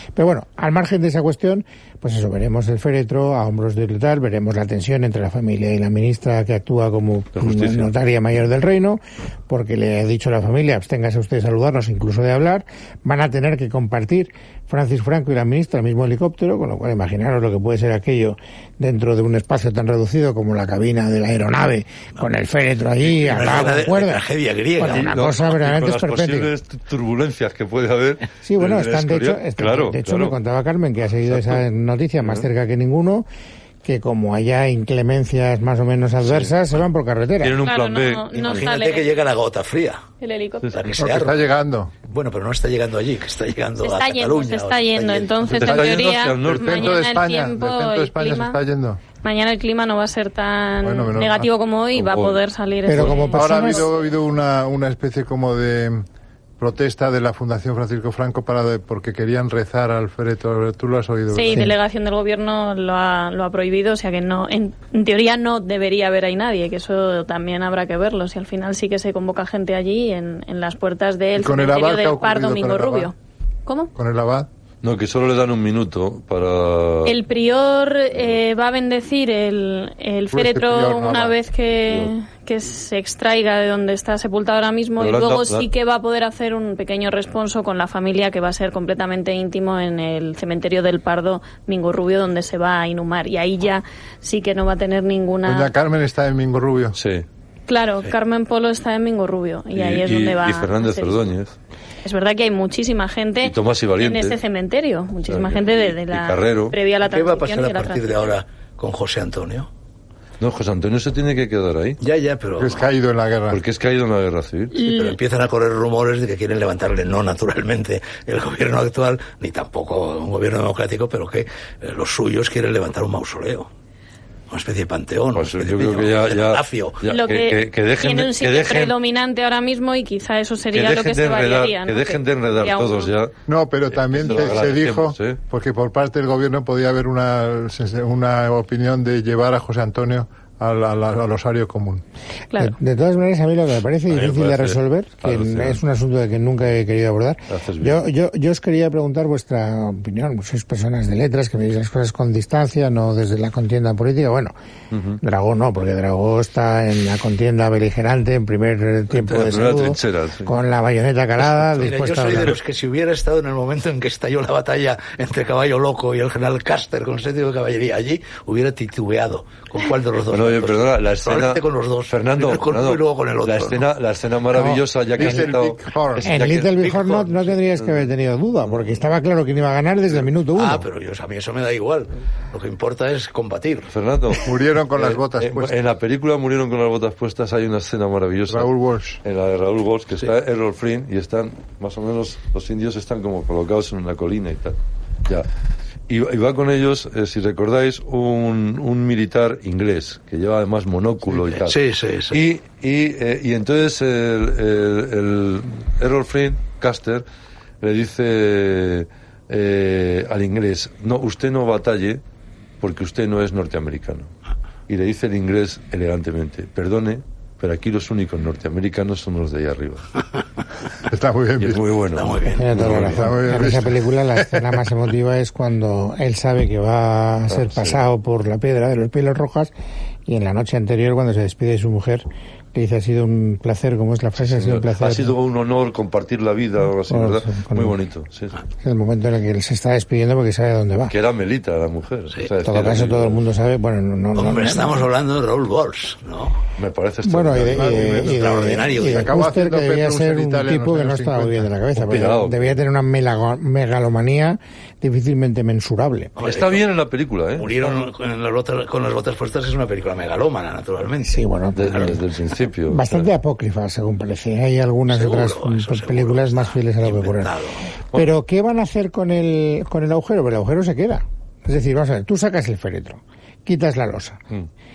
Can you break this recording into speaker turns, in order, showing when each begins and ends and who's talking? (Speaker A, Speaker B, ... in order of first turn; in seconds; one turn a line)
Speaker A: 0.1-24.2
Speaker B: 7.4-7.9
Speaker C: 23.1-25.2
Speaker A: 24.8-26.5
Speaker B: 24.9-30.4
Speaker A: 28.4-33.3
Speaker B: 31.3-31.6
Speaker B: 32.2-32.5
Speaker A: 33.8-37.6
Speaker B: 36.2-36.5
Speaker B: 37.4-38.6
Speaker D: 37.6-39.1
Speaker C: 38.4-40.0
Speaker D: 40.2-40.8
Speaker C: 40.7-41.5
Speaker E: 41.0-41.9
Speaker C: 42.0-45.8
Speaker D: 43.8-48.6
Speaker B: 45.5-47.0
Speaker E: 45.7-49.0
Speaker D: 49.2-53.9
Speaker E: 50.8-51.5
Speaker B: 52.0-52.4
Speaker A: 52.9-53.9
Speaker E: 53.4-56.0
Speaker E: 56.6-61.7
Speaker D: 61.3-73.1
Speaker E: 71.4-73.1
Speaker D: 73.7-73.9
Speaker E: 74.0-74.5
Speaker B: 74.8-77.2
Speaker D: 77.0-95.7
Speaker E: 80.3-81.4
Speaker B: 85.0-85.7
Speaker E: 95.5-97.0
Speaker B: 97.0-97.2
Speaker D: 97.7-101.3
Speaker B: 99.7-101.5
Speaker D: 102.0-108.3
Speaker B: 103.4-104.4
Speaker B: 105.3-106.8
Speaker C: 107.1-109.7
Speaker B: 110.4-112.0
Speaker C: 112.0-112.8
Speaker E: 112.6-113.6
Speaker B: 113.5-114.8
Speaker D: 114.8-115.2
Speaker C: 114.8-123.7
Speaker C: 124.5-127.1
Speaker B: 125.3-128.9
Speaker D: 127.1-133.1
Speaker B: 130.7-133.3
Speaker E: 133.5-142.0
Speaker B: 133.9-135.4
Speaker A: 142.6-154.5
Speaker B: 144.1-145.8
Speaker B: 147.5-148.0
Speaker B: 154.9-155.2
Speaker A: 155.2-162.6
Speaker B: 159.1-160.5
Speaker C: 161.8-173.8
Speaker B: 170.3-178.1
Speaker A: 174.5-175.5
Speaker E: 175.2-176.3
Speaker A: 176.2-180.8
Speaker C: 180.6-183.9
Speaker B: 183.9-188.7
Speaker E: 184.4-185.7
Speaker E: 188.5-189.2
Speaker B: 189.2-195.5
Speaker B: 196.1-201.8
Speaker C: 201.3-202.4
Speaker B: 202.3-207.2
Speaker B: 207.8-212.2
Speaker B: 212.8-214.3
Speaker B: 214.9-220.1
Speaker E: 221.1-221.8
Speaker B: 221.6-223.3
Speaker C: 222.1-222.9
Speaker A: 222.5-229.7
Speaker E: 222.9-224.8
Speaker B: 227.5-228.0
Speaker A: 230.3-235.3
Speaker B: 234.4-238.6
Speaker A: 237.1-238.0
Speaker A: 238.8-241.2
Speaker B: 241.1-243.4
Speaker A: 242.6-245.1
Speaker C: 244.3-246.6
Speaker B: 246.8-248.2
Speaker A: 247.2-256.3
Speaker E: 247.6-251.7
Speaker C: 248.2-249.3
Speaker B: 251.9-252.7
Speaker C: 256.4-256.8
Speaker B: 256.4-257.9
Speaker C: 257.6-261.4
Speaker A: 261.2-262.2
Speaker B: 261.8-263.3
Speaker A: 262.9-267.5
Speaker C: 265.1-267.9
Speaker A: 268.1-274.4